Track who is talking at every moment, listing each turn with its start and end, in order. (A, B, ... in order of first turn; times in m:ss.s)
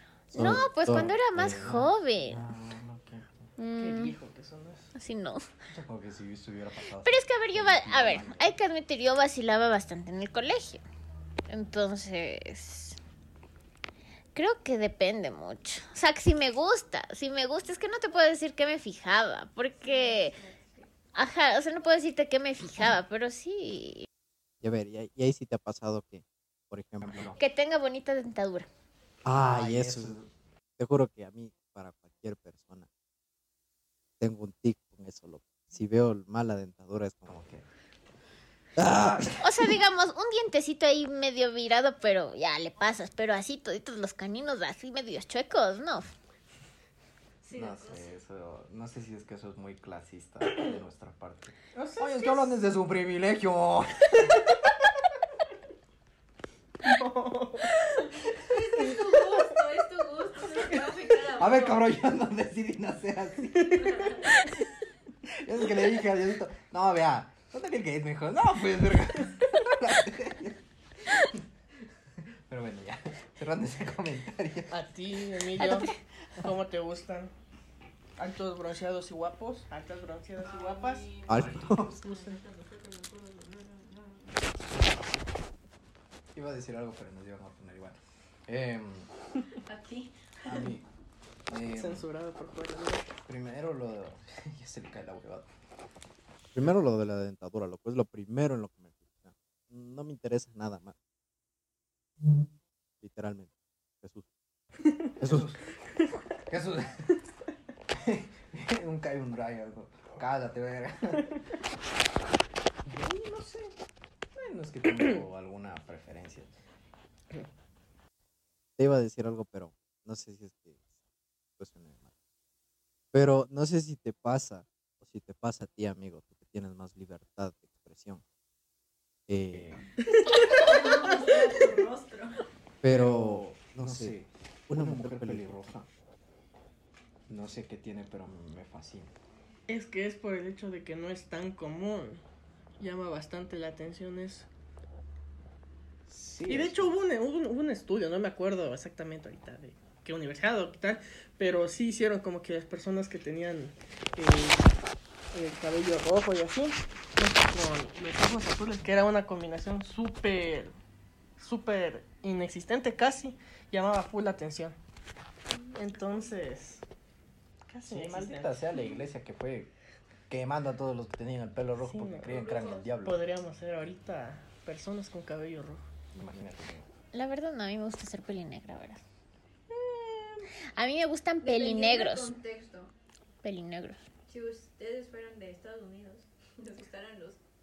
0:00.3-0:01.8 A
0:00.3-0:02.4 B
0:01.5-0:03.3 C
0:03.6-0:04.1 B
0:03.8-0:04.9 D
0:05.0-0:05.5 B
0:05.7-0:08.6 C
0:07.0-0:10.8 B
0:11.5-0:13.0 B
0:14.4-0:20.4 B
0:19.8-0:20.9 E
0:21.1-0:24.1 B
0:24.6-0:27.3 A
0:27.0-0:27.4 C
0:27.4-0:28.7 B
0:29.2-0:30.1 A
0:29.3-0:30.3 C
0:30.8-0:32.9 A
0:34.2-0:37.4 A
0:37.2-0:37.7 C
0:38.8-0:39.3 A
0:38.8-0:39.3 C
0:39.4-0:46.1 B
0:47.4-0:48.1 E
0:47.5-0:54.5 C
0:51.8-0:52.5 D
0:56.8-0:57.8 D
0:58.3-1:01.9 E
1:01.4-1:04.4 C
1:03.7-1:04.4 E
1:05.3-1:10.6 C
1:12.5-1:14.8 C
1:14.7-1:17.3 D
1:18.2-1:21.1 D
1:20.4-1:24.5 E
1:21.3-1:21.8 A
1:21.3-1:22.0 C
1:22.0-1:22.4 D
1:26.4-1:29.1 C
1:29.6-1:30.7 E
1:30.4-1:30.9 C
1:31.5-1:32.1 C
1:31.8-1:33.1 D
1:33.3-1:35.5 C
1:36.6-1:41.0 A
1:43.0-1:43.5 A
1:45.2-1:45.5 A
1:45.2-1:45.6 C
1:46.5-1:47.1 C
1:47.9-1:51.3 C
1:52.8-1:53.8 C
1:54.3-1:56.5 C
1:58.8-2:00.8 A
2:01.6-2:02.1 A
2:03.1-2:08.2 A
2:09.3-2:09.8 A
2:09.5-2:09.8 C
2:10.0-2:10.8 D
2:10.4-2:12.4 E
2:12.8-2:14.1 A
2:12.9-2:15.9 C
2:14.7-2:15.4 A
2:17.3-2:19.2 C
2:19.7-2:22.2 D
2:22.8-2:24.5 D
2:26.1-2:26.9 C
2:26.5-2:34.7 D
2:35.3-2:40.8 D
2:41.4-2:44.8 D
2:45.5-2:46.4 E
2:45.7-2:46.8 D
2:47.7-2:48.7 D
2:47.9-2:49.7 C
2:50.3-2:53.2 C
2:51.8-2:52.4 D
2:52.3-2:52.9 E
2:53.0-2:55.8 D
2:56.1-2:56.9 C
2:57.1-2:59.0 B
2:59.8-3:00.3 D
3:00.8-3:02.3 B
3:01.4-3:02.9 E
3:03.4-3:04.0 B
3:04.3-3:07.4 E